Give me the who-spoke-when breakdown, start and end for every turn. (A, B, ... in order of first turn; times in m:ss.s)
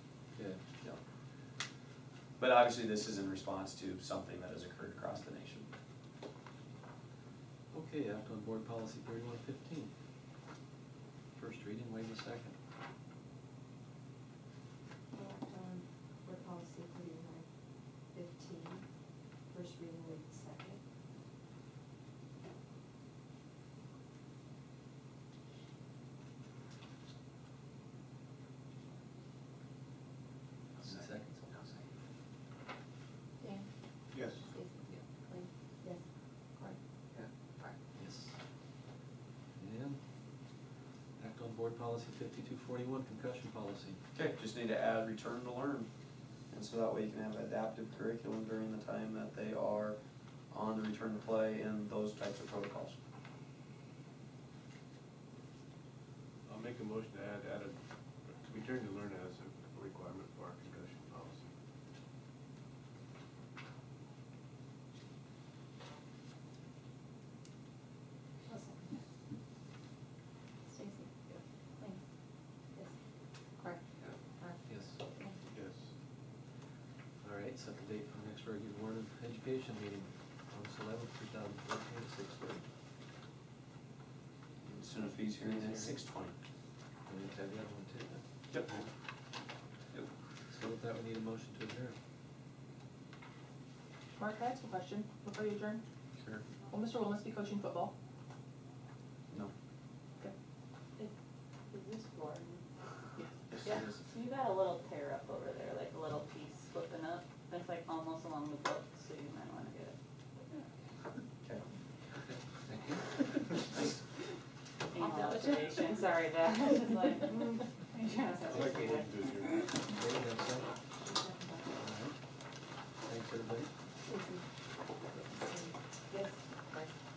0:02.4-0:05.7 A
0:07.7-0:09.9 B
0:11.4-0:12.6 B
0:15.1-0:17.5 C
0:18.1-0:18.9 C
0:19.5-0:20.8 C
0:30.8-0:31.8 A
0:30.8-0:31.5 B
0:33.4-0:33.7 C
0:34.1-0:34.5 D
0:34.5-0:36.0 C
0:36.6-0:37.7 C
0:38.0-0:38.4 B
0:39.6-0:40.0 B
0:41.2-0:44.0 B
0:44.2-0:45.9 A
0:46.5-0:50.0 A
0:50.5-0:53.0 A
0:56.5-0:57.8 D
0:58.3-1:01.5 D
1:08.5-1:09.0 C
1:10.7-1:11.9 C
1:13.6-1:14.6 C
1:14.7-1:15.0 B
1:15.5-1:15.9 D
1:17.2-1:22.6 B
1:24.6-1:26.4 A
1:25.4-1:26.0 B
1:27.1-1:28.2 B
1:28.5-1:28.8 A
1:30.5-1:32.0 B
1:34.2-1:35.8 E
1:36.2-1:36.4 A
1:36.7-1:37.9 E
1:41.7-1:42.7 F
1:43.5-1:44.0 A
1:43.6-1:50.0 F
1:52.7-1:52.9 B
1:54.9-1:59.4 F
1:55.0-1:55.6 C
1:58.5-1:59.6 D
1:59.7-2:00.7 B
2:01.1-2:01.7 C
2:01.8-2:02.2 B
2:03.0-2:03.7 B
2:04.1-2:04.4 C
2:05.1-2:06.2 C